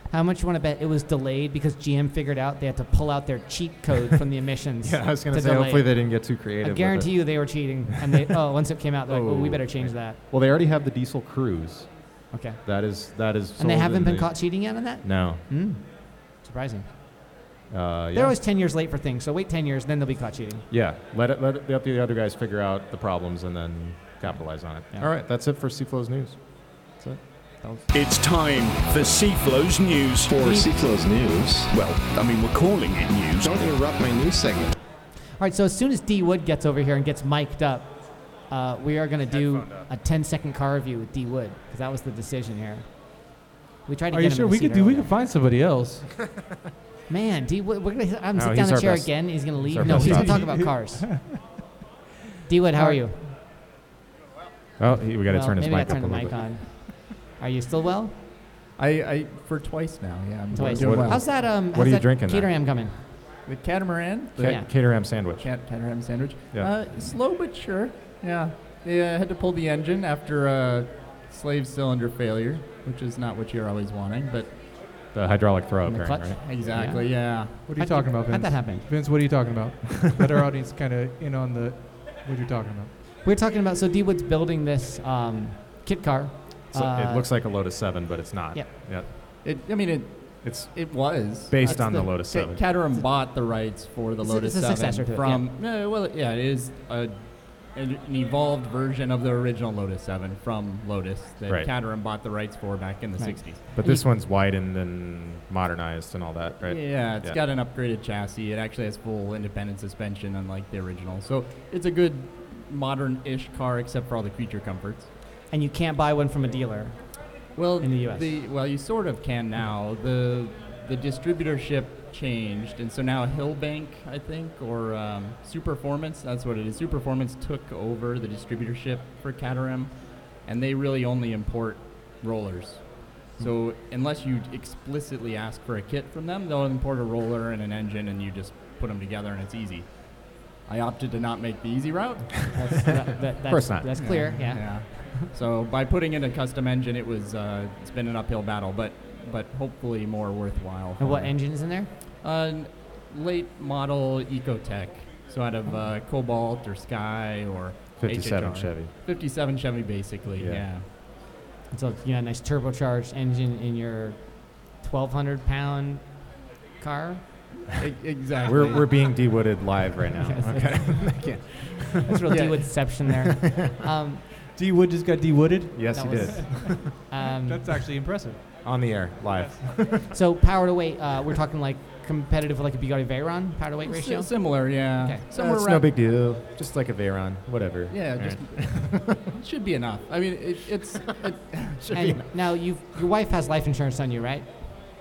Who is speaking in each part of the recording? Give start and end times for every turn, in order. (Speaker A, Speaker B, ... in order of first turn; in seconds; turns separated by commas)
Speaker A: 0.1-10.2, Speaker B: 4.8-8.2, Speaker B: 9.1-11.9, Speaker A: 12.3-12.6, Speaker B: 12.6-15.4, Speaker A: 13.6-16.9, Speaker B: 17.7-18.4, Speaker A: 18.1-20.6, Speaker B: 20.7-26.4, Speaker C: 27.9-30.6, Speaker D: 30.3-31.7, Speaker C: 31.7-33.7, Speaker D: 33.4-34.8, Speaker A: 35.4-43.2, Speaker B: 39.3-39.9, Speaker A: 43.9-45.1, Speaker E: 44.1-46.1, Speaker A: 47.1-51.1, Speaker B: 48.3-50.6, Speaker E: 49.8-51.4, Speaker A: 52.5-53.2, Speaker B: 54.8-56.5, Speaker A: 55.3-58.1, Speaker F: 58.8-61.2, Speaker A: 60.5-62.9, Speaker B: 60.6-62.5, Speaker F: 63.4-74.6, Speaker B: 64.4-65.5, Speaker A: 64.4-64.7, Speaker B: 75.1-76.4, Speaker A: 75.8-78.9, Speaker F: 76.4-77.6, Speaker E: 77.7-82.9, Speaker A: 83.2-87.3, Speaker B: 86.7-89.1, Speaker F: 89.4-103.7, Speaker B: 90.4-92.6, Speaker A: 91.6-92.2, Speaker A: 94.2-95.5, Speaker A: 103.2-104.1, Speaker B: 103.7-107.4, Speaker F: 106.6-115.1, Speaker A: 115.5-118.3, Speaker F: 117.5-142.6, Speaker A: 142.5-145.2, Speaker B: 143.5-143.9, Speaker F: 143.9-151.3, Speaker A: 151.0-151.9, Speaker F: 152.2-160.8, Speaker B: 158.0-158.9, Speaker B: 160.4-160.6, Speaker A: 161.7-167.2, Speaker F: 167.7-168.8, Speaker B: 168.4-172.1, Speaker A: 170.2-171.3, Speaker A: 172.0-174.2, Speaker F: 172.3-172.9, Speaker B: 173.4-173.7, Speaker E: 174.5-178.4, Speaker B: 175.7-176.9, Speaker A: 175.9-177.7, Speaker B: 178.6-180.1, Speaker A: 180.1-185.2, Speaker F: 183.8-185.9, Speaker B: 185.3-189.3, Speaker F: 187.9-192.2, Speaker B: 191.8-192.2, Speaker A: 191.9-194.5